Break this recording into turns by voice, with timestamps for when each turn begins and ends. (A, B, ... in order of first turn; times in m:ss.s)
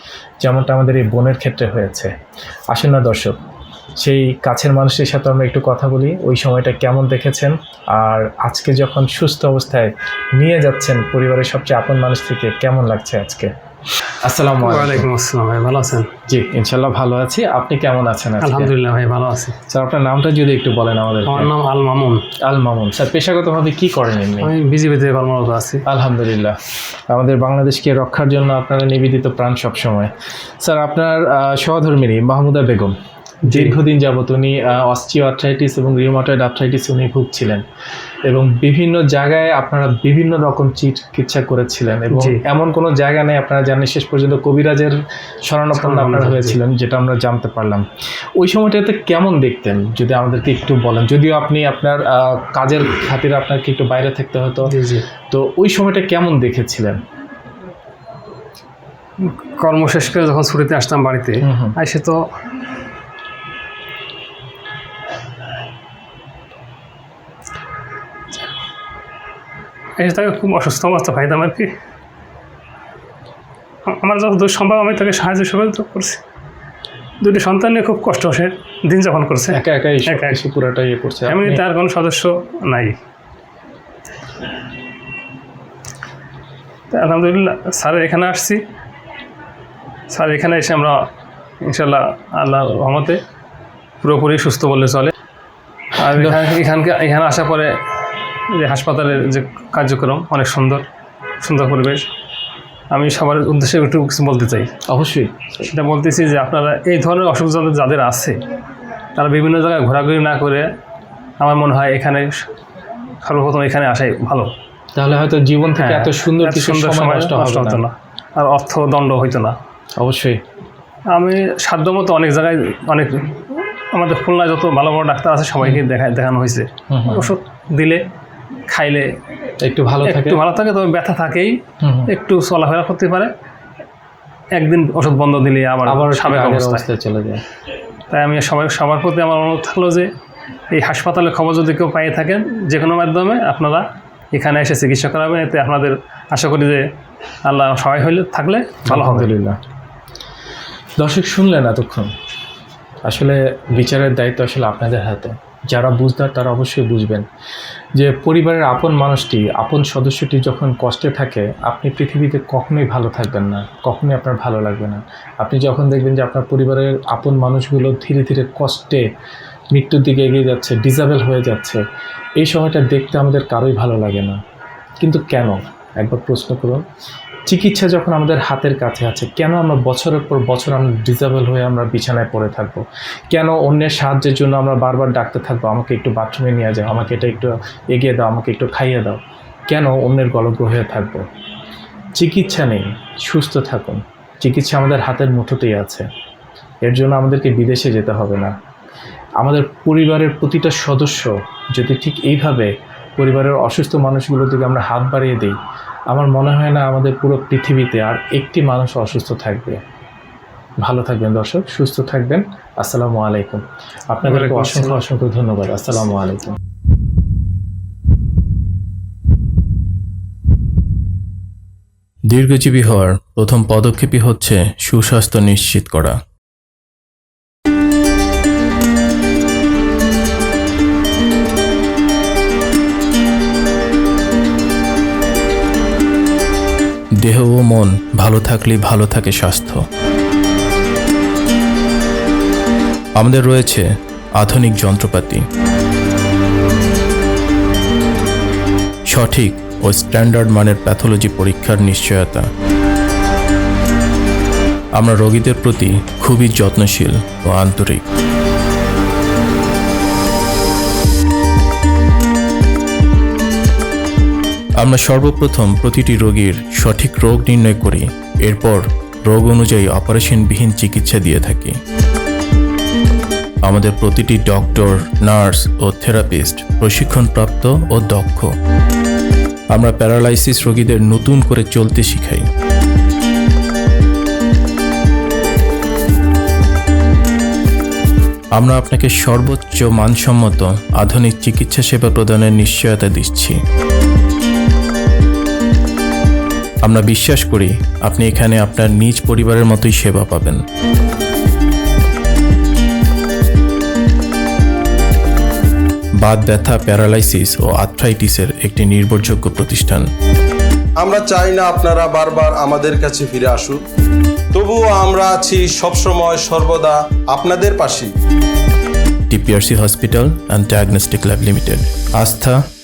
0:00.4-0:02.1 A
0:02.7-0:03.4 A
0:04.0-0:13.5 A
0:14.1-0:15.1 A
0:14.6-0:16.1 B
0:16.3-0:18.7 A
0:18.4-0:19.6 B
0:19.7-0:21.5 A
0:21.2-0:22.2 B
0:22.4-0:24.5 A
0:24.4-0:25.8 B
0:25.8-0:26.6 A
0:27.1-0:37.6 A
0:33.5-0:33.8 B
0:38.3-0:47.8 A
0:42.1-0:42.4 B
0:45.8-0:46.6 B
0:48.4-0:54.7 A
0:54.6-0:55.0 B
0:55.3-0:57.0 A
0:59.2-1:02.2 B
1:01.4-1:01.7 A
1:10.0-1:11.7 B
1:13.9-1:16.2 B
1:17.2-1:20.4 B
1:19.5-1:21.6 A
1:21.3-1:23.0 B
1:26.9-1:28.6 B
1:30.1-1:31.0 B
1:31.6-1:33.2 B
1:34.0-1:35.1 B
1:36.0-1:37.8 B
1:38.5-1:40.8 B
1:41.4-1:42.0 B
1:42.9-1:44.7 B
1:44.9-1:45.7 A
1:45.6-1:48.4 B
1:49.2-1:50.7 B
1:51.4-1:52.5 B
1:53.2-1:54.5 B
1:55.0-1:57.8 A
1:55.8-1:59.6 B
2:00.0-2:00.4 A
2:01.1-2:08.0 B
2:06.9-2:07.3 A
2:08.7-2:09.1 B
2:09.6-2:10.4 A
2:10.0-2:13.3 B
2:11.8-2:12.1 A
2:14.5-2:16.8 B
2:15.8-2:17.4 A
2:18.1-2:20.1 B
2:20.7-2:26.8 B
2:27.4-2:29.3 B
2:28.8-2:29.6 A
2:31.0-2:32.1 A
2:33.0-2:37.2 A
2:38.0-2:49.0 A
2:49.7-2:51.8 A
2:52.4-2:54.4 A
2:55.0-2:56.8 A
2:57.5-3:11.2 A
3:12.1-3:16.1 A
3:16.8-3:18.5 A
3:19.4-3:25.6 A
3:26.1-3:29.8 A
3:30.8-3:36.6 A
3:34.2-3:35.0 B
3:42.3-3:46.1 C
3:57.2-3:59.8 C
4:03.2-4:03.8 C
4:04.4-4:05.4 C
4:09.1-4:12.4 C
4:15.0-4:18.0 C
4:24.8-4:31.8 C
4:33.6-4:38.5 C
4:39.7-4:42.4 C
4:48.6-4:53.5 C
4:56.8-5:00.6 C
5:06.2-5:10.0 C
5:11.0-5:13.8 D
5:14.5-5:18.1 D
5:19.3-5:22.6 C